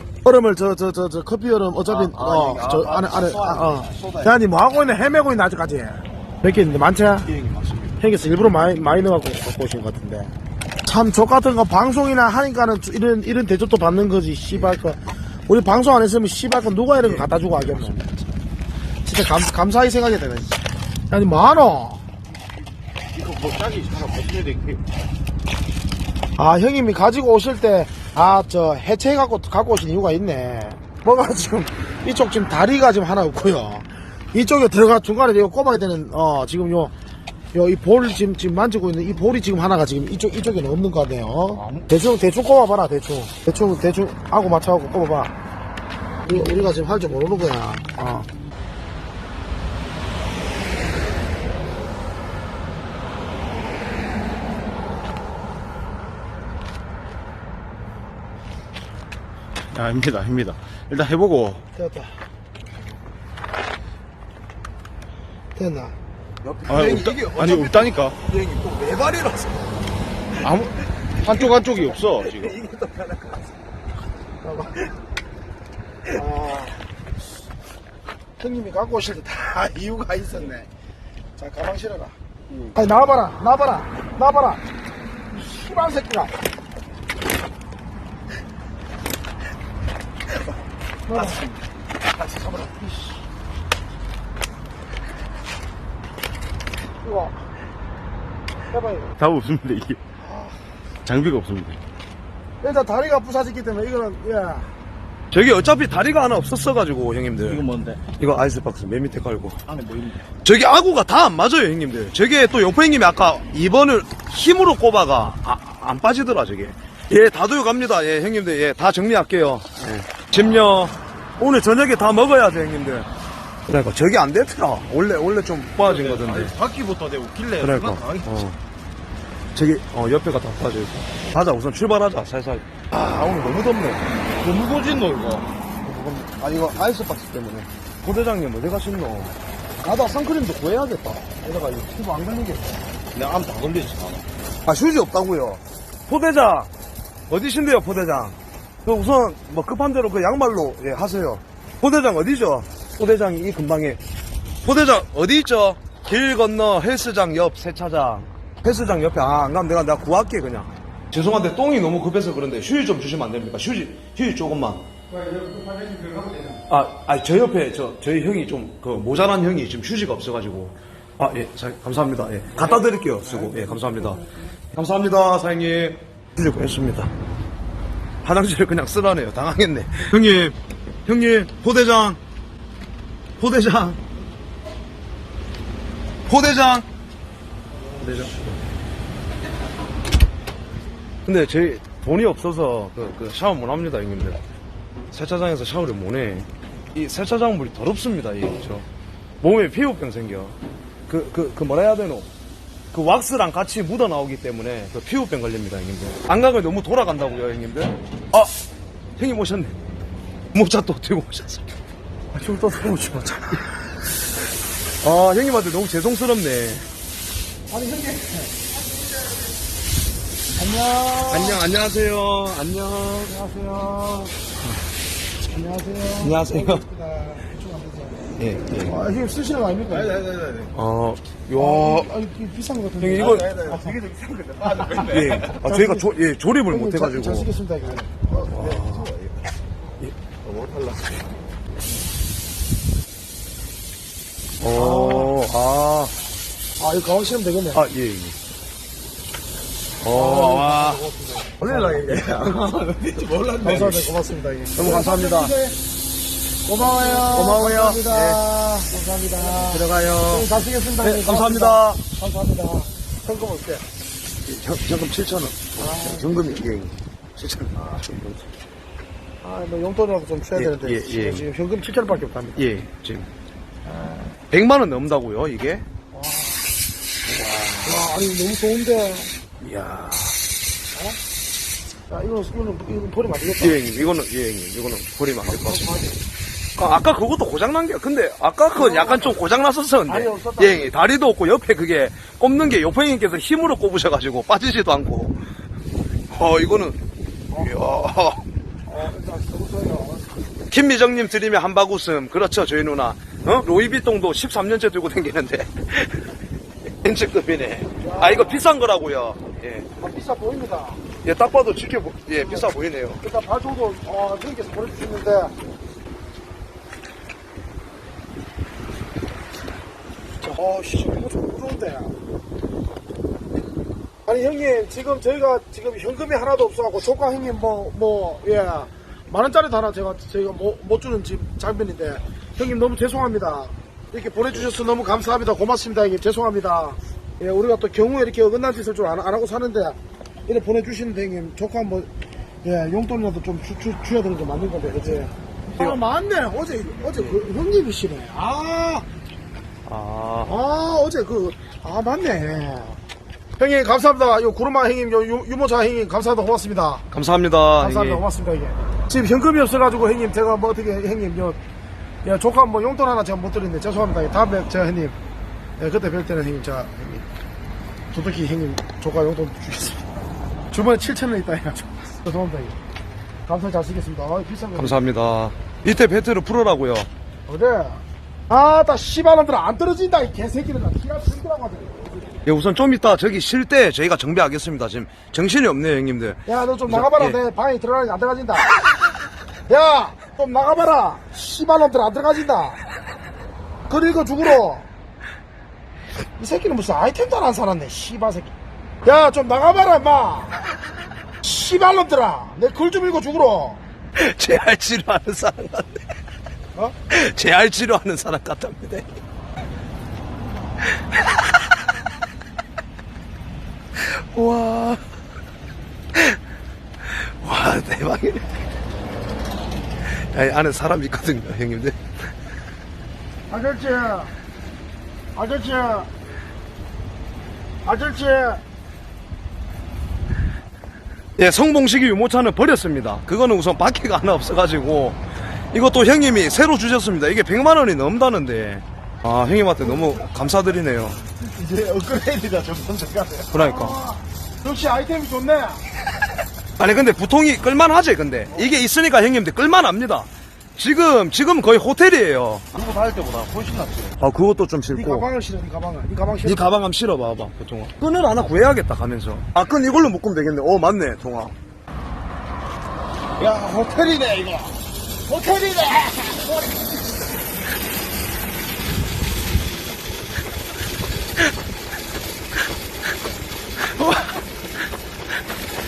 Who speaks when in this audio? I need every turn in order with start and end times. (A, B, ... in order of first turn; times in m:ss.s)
0:00.2-0:07.3 A
0:01.8-0:04.4 B
0:07.2-0:08.0 B
0:08.0-0:10.3 A
0:10.8-0:18.0 A
0:17.0-0:18.3 B
0:19.0-0:20.6 A
0:21.1-0:22.0 A
0:23.1-0:24.8 C
0:26.4-0:36.9 A
0:37.5-0:45.3 A
0:41.6-0:41.8 C
0:46.2-0:48.3 A
0:59.7-1:01.6 C
1:01.7-1:02.2 A
1:05.5-1:05.9 A
1:06.4-1:09.8 B
1:06.7-1:08.1 C
1:10.4-1:10.7 A
1:11.2-1:13.5 B
1:11.3-1:12.5 C
1:14.4-1:14.8 A
1:16.1-1:16.8 A
1:18.4-1:20.7 A
1:21.4-1:22.1 A
1:22.7-1:24.6 A
1:25.3-1:26.3 A
1:31.1-1:31.4 A
1:31.1-1:31.5 B
1:37.0-1:37.4 A
1:38.7-1:39.1 A
1:39.2-1:40.0 C
1:40.2-1:40.6 A
1:41.0-1:41.8 C
1:42.6-1:44.7 A
1:45.3-1:47.6 B
1:47.5-1:48.0 C
1:48.2-1:49.6 B
1:49.7-1:50.2 C
1:50.4-2:03.1 B
2:03.7-2:06.5 B
2:05.8-2:08.4 C
2:07.6-2:08.6 B
2:09.5-2:14.1 B
2:14.4-2:15.5 C
2:15.8-2:22.6 B
2:23.1-2:24.2 C
2:24.6-2:26.7 B
2:27.3-2:34.0 B
2:34.6-2:44.8 B
2:45.4-2:46.2 A
2:46.7-2:54.2 B
2:54.7-2:57.1 B
2:58.2-3:02.2 B
3:03.4-3:04.0 B
3:06.3-3:06.8 B
3:08.0-3:08.4 B
3:11.2-3:14.4 B
3:15.1-3:18.8 B
3:19.4-3:20.6 B
3:21.1-3:22.3 B
3:22.9-3:28.5 B
3:29.2-3:29.8 B
3:30.5-3:31.7 B
3:32.3-3:33.7 A
3:35.0-3:36.8 B
3:37.7-3:38.5 A
3:40.5-3:41.6 A
3:41.3-3:43.3 B
3:43.2-3:44.3 A
3:45.4-3:48.3 A
3:46.2-3:46.8 B
3:48.4-3:48.9 B
3:48.8-3:50.2 A
3:50.0-3:50.7 C
3:50.7-3:52.1 B
3:51.5-3:54.0 A
3:53.0-3:53.5 B
3:53.2-3:55.6 C
3:55.0-3:57.5 B
3:55.6-3:56.1 A
3:56.7-3:58.5 A
3:58.5-3:59.5 C
3:58.5-3:59.1 B
4:00.4-4:01.2 C
4:04.6-4:06.1 B
4:04.7-4:05.3 A
4:06.8-4:07.8 A
4:07.7-4:08.4 B
4:10.0-4:11.0 B
4:10.1-4:12.3 A
4:11.6-4:14.1 B
4:13.6-4:15.8 A
4:14.7-4:15.5 B
4:16.6-4:23.8 A
4:17.2-4:18.4 B
4:19.5-4:22.0 B
4:24.4-4:28.4 B
4:25.8-4:26.6 A
4:29.4-4:32.6 A
4:30.5-4:31.4 B
4:32.6-4:33.3 B
4:33.9-4:34.3 A
4:34.5-4:35.8 B
4:36.1-4:36.6 A
4:37.3-4:38.1 B
4:37.8-4:39.3 A
4:39.6-4:40.4 B
4:42.1-4:43.8 A
4:43.6-4:46.0 B
4:45.5-4:46.2 A
4:46.8-4:55.4 B
4:48.7-4:49.4 A
4:50.1-4:50.9 A
4:56.3-4:57.0 B
4:57.5-4:58.4 B
4:58.9-5:00.5 A
5:00.7-5:06.3 B
5:07.0-5:09.9 B
5:08.0-5:08.6 A
5:10.0-5:11.0 A
5:11.2-5:13.2 B
5:12.4-5:12.6 A
5:13.2-5:15.5 A
5:20.4-5:22.2 A
5:24.2-5:42.1 A
5:42.6-5:49.0 A
5:49.8-5:50.5 B
5:50.4-5:53.0 A
5:53.6-5:57.0 A
5:57.1-5:58.2 B
5:57.8-6:01.6 A
6:02.2-6:05.2 A
6:05.8-6:07.2 A
6:08.1-6:10.0 A
6:10.7-6:12.8 A
6:13.4-6:15.0 A
6:14.8-6:17.1 B
6:17.5-6:22.3 A
6:22.4-6:27.4 B
6:26.4-6:28.7 A
6:29.7-6:32.8 A
6:33.9-6:34.9 A
6:36.4-6:40.6 A
6:41.4-6:43.8 A
6:44.2-6:46.0 B
6:47.1-6:49.1 B
6:51.2-6:51.4 B
6:54.0-6:55.0 B
6:57.0-6:58.5 B
7:00.3-7:02.0 B
7:03.5-7:04.3 A
7:05.3-7:06.1 A
7:07.8-7:08.6 A
7:11.4-7:21.2 B
7:21.4-7:23.5 C
7:23.5-7:24.0 B
7:23.5-7:25.8 A
7:26.8-7:32.8 B
7:32.8-7:34.1 C
7:34.2-7:35.3 B
7:34.9-7:36.7 A
7:36.4-7:41.5 B
7:43.4-7:46.8 A
7:53.8-7:54.4 B